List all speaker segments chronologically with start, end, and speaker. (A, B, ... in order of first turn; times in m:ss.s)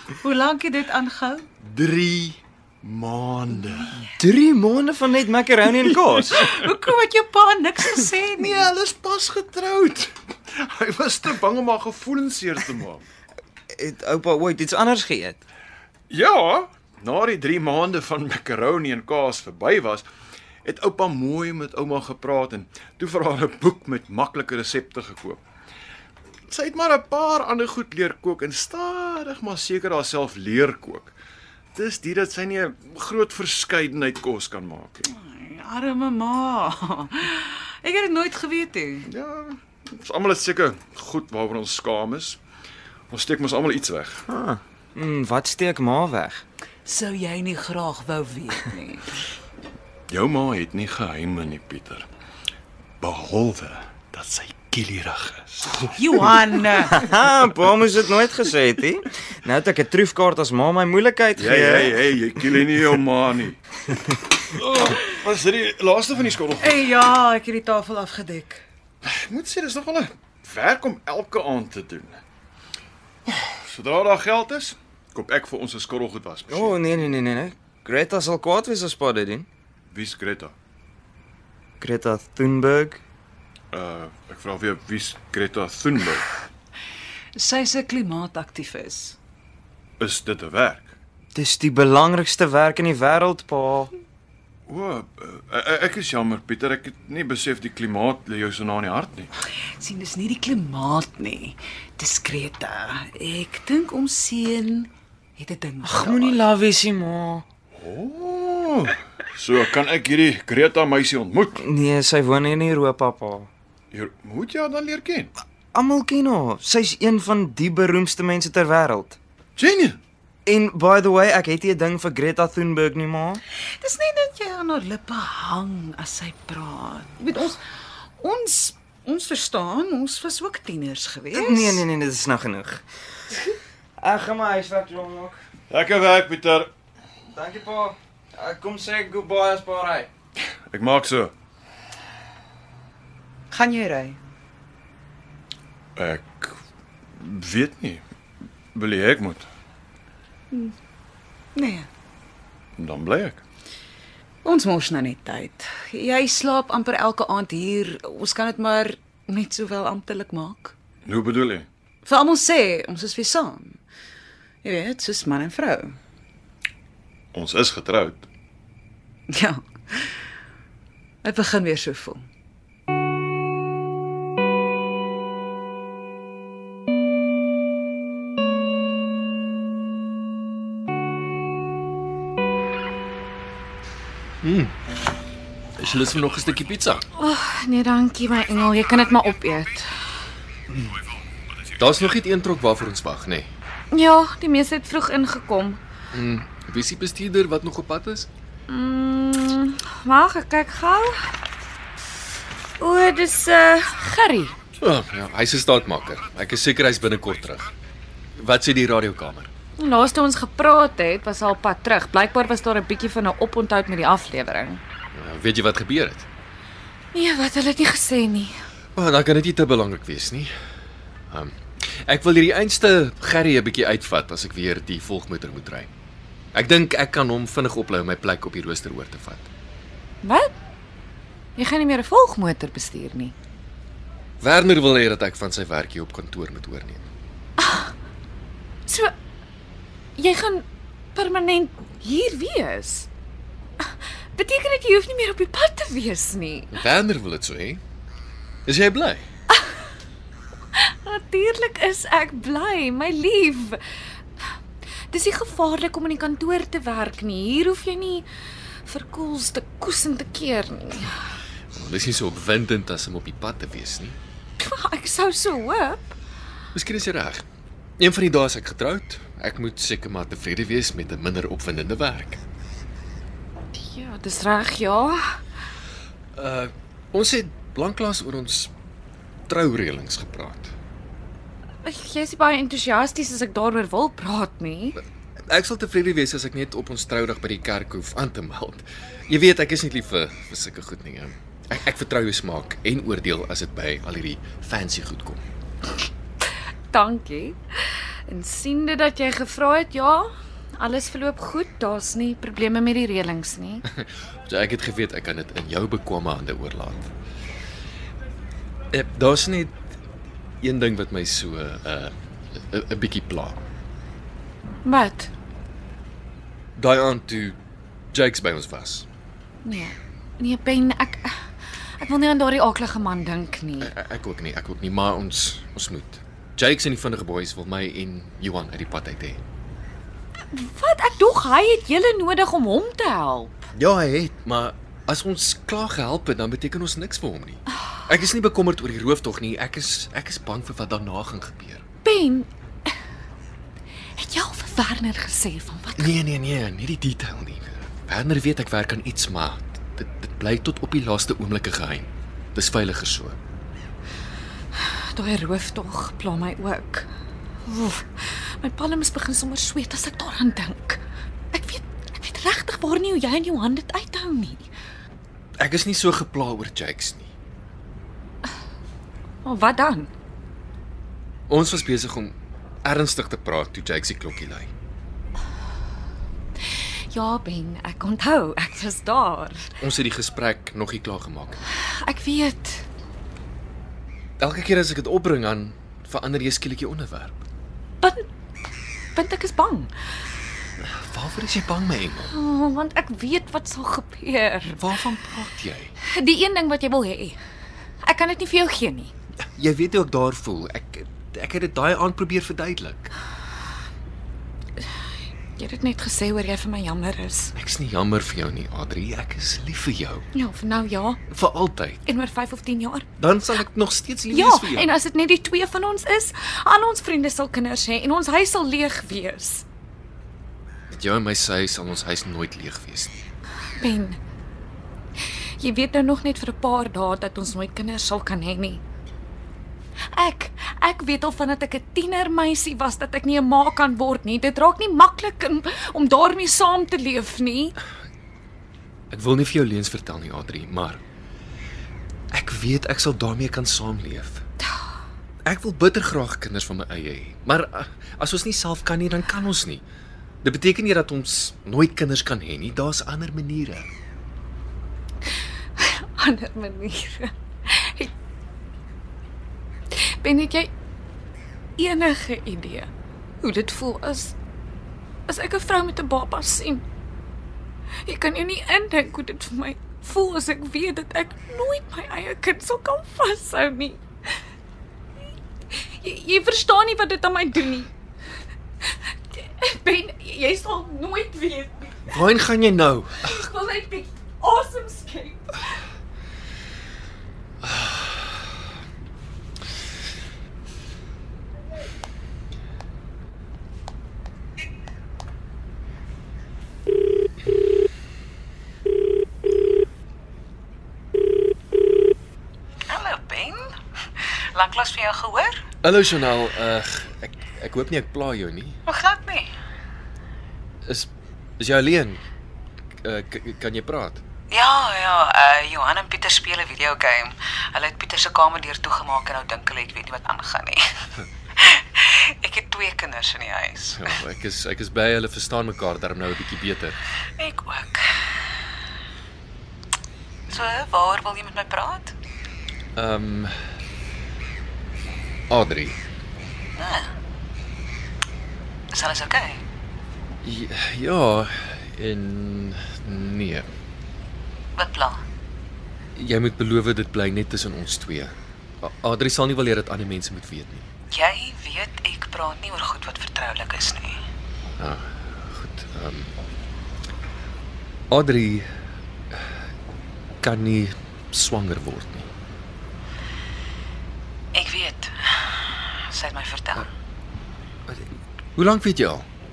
0:00.2-0:01.4 A
0:01.6-0:03.9 B
0:04.0-0:06.2 C
0:05.9-0:06.4 B
0:06.3-0:08.7 A
0:08.3-0:13.0 B
0:13.7-0:15.4 C
0:16.1-0:20.0 B
0:20.6-0:25.4 B
0:26.5-0:31.1 B
0:31.7-0:35.1 B
0:35.2-0:39.1 A
0:39.0-0:42.4 B
0:43.1-0:44.2 B
0:44.3-0:46.4 C
0:46.8-0:49.1 A
0:50.1-0:52.1 B
0:53.0-0:56.5 B
0:56.0-0:57.0 A
0:56.8-1:02.0 C
1:01.4-1:03.6 B
1:04.5-1:07.0 B
1:06.6-1:08.6 A
1:09.0-1:12.2 B
1:13.3-1:16.8 B
1:16.5-1:19.5 C
1:19.9-1:20.5 B
1:21.8-1:23.0 C
1:23.7-1:26.3 B
1:27.3-1:29.2 A
1:30.0-1:30.9 B
1:31.3-1:33.9 C
1:34.7-1:39.3 B
1:39.8-1:46.4 A
1:45.8-1:47.4 C
1:47.8-1:51.5 B
1:51.6-1:53.5 C
1:53.9-1:55.3 B
1:55.7-1:59.2 C
1:59.6-2:00.0 B
2:00.4-2:03.4 C
2:03.8-2:07.6 A
2:08.2-2:11.8 A
2:11.3-2:12.8 C
2:14.0-2:15.4 C
2:15.7-2:16.7 B
2:17.3-2:20.1 C
2:20.7-2:21.3 B
2:23.5-2:24.2 A
2:26.0-2:26.6 B
2:27.2-2:28.0 B
2:28.7-2:29.5 B
2:31.5-2:31.9 A
2:32.8-2:33.4 B
2:34.4-2:40.7 A
2:41.0-2:41.7 B
2:42.0-2:43.8 A
2:44.6-2:46.0 A
2:47.3-2:48.2 B
2:49.3-2:50.0 A
2:51.2-2:52.2 A
3:04.4-3:04.7 D
3:05.8-3:07.0 D
3:07.2-3:09.9 E
3:11.8-3:13.5 D
3:13.9-3:15.8 E
3:16.1-3:18.3 D
3:18.7-3:21.3 E
3:22.8-3:24.6 E
3:24.8-3:27.7 D
3:28.4-3:29.5 D
3:29.8-3:34.8 E
3:35.1-3:36.2 D
3:37.1-3:38.5 E
3:39.0-3:40.5 D
3:41.3-3:45.9 D
3:46.5-3:49.5 D
3:50.2-3:50.5 E
3:51.6-3:53.3 E
3:54.4-3:57.0 D
3:57.6-3:57.9 E
3:58.9-3:59.1 E
4:00.2-4:03.1 E
4:04.4-4:06.8 E
4:06.7-4:07.8 D
4:08.6-4:09.2 D
4:10.7-4:13.8 E
4:15.1-4:18.2 E
4:18.8-4:21.1 E
4:21.7-4:24.2 D
4:24.6-4:26.1 E
4:26.7-4:27.4 D
4:28.0-4:32.4 D
4:33.7-4:35.2 E
4:36.4-4:38.7 D
4:39.5-4:40.7 D
4:41.8-4:45.0 E
4:45.5-4:55.4 D
4:56.9-5:03.8 E
5:03.9-5:07.1 D
5:08.9-5:09.7 D
5:10.6-5:12.1 D
5:12.7-5:13.6 D
5:14.8-5:15.3 E
5:16.8-5:17.6 D
5:18.1-5:19.0 D
5:19.6-5:21.3 E
5:22.0-5:23.9 E
5:23.8-5:29.4 D
5:30.5-5:33.6 E
5:33.7-5:41.8 D
5:42.0-5:42.5 E
5:44.2-5:46.1 E
5:46.0-5:53.4 D
5:54.8-5:57.1 E
5:57.6-6:01.0 E
6:01.5-6:04.7 E
6:05.6-6:07.3 D
6:09.4-6:10.1 E
6:11.5-6:14.7 D
6:17.1-6:19.6 E
6:19.8-6:21.6 D
6:21.8-6:22.8 E
6:24.4-6:27.4 D
6:29.1-6:29.9 E
6:30.8-6:32.3 D
6:32.3-6:34.8 E
6:34.7-6:35.9 D
6:36.1-6:37.4 E
6:38.0-6:39.1 E
6:39.6-6:43.1 D
6:45.6-6:47.5 E
6:47.5-6:50.2 D
6:50.3-6:51.2 E
6:51.3-6:52.0 D
6:52.0-6:53.0 E
6:53.2-6:54.9 D
6:54.3-6:59.6 E
7:00.9-7:03.1 D
7:03.8-7:04.2 E
7:05.6-7:08.8 E
7:10.1-7:17.7 E
7:19.1-7:21.0 D
7:22.3-7:24.4 D
7:25.4-7:29.8 D
7:30.4-7:33.9 D
7:35.8-7:38.1 E
7:40.2-7:40.7 E
7:41.8-7:42.9 E
7:43.4-7:44.3 E
7:45.3-7:46.8 E
7:48.0-7:54.0 E
7:56.0-7:57.9 E
7:59.3-8:02.2 E
8:02.1-8:03.4 D
8:03.2-8:05.5 E
8:07.6-8:08.0 D
8:22.9-8:23.6 A
8:24.2-8:25.5 A
8:25.8-8:28.8 D
8:28.9-8:29.5 A
8:30.8-8:32.2 D
8:33.0-8:34.2 D
8:34.5-8:40.8 A
8:41.6-8:44.1 A
8:43.9-8:47.0 D
8:47.4-8:48.0 A
8:50.5-8:52.1 A
8:53.0-8:53.5 D
8:55.5-8:56.0 D
8:56.8-8:57.1 A
8:58.9-8:59.6 A
9:00.4-9:03.7 D
9:04.8-9:05.2 A
9:06.2-9:10.8 D
9:11.1-9:14.2 A
9:14.8-9:16.3 D
9:18.1-9:18.6 D
9:20.4-9:22.3 D
9:24.5-9:26.9 A
9:27.9-9:29.2 D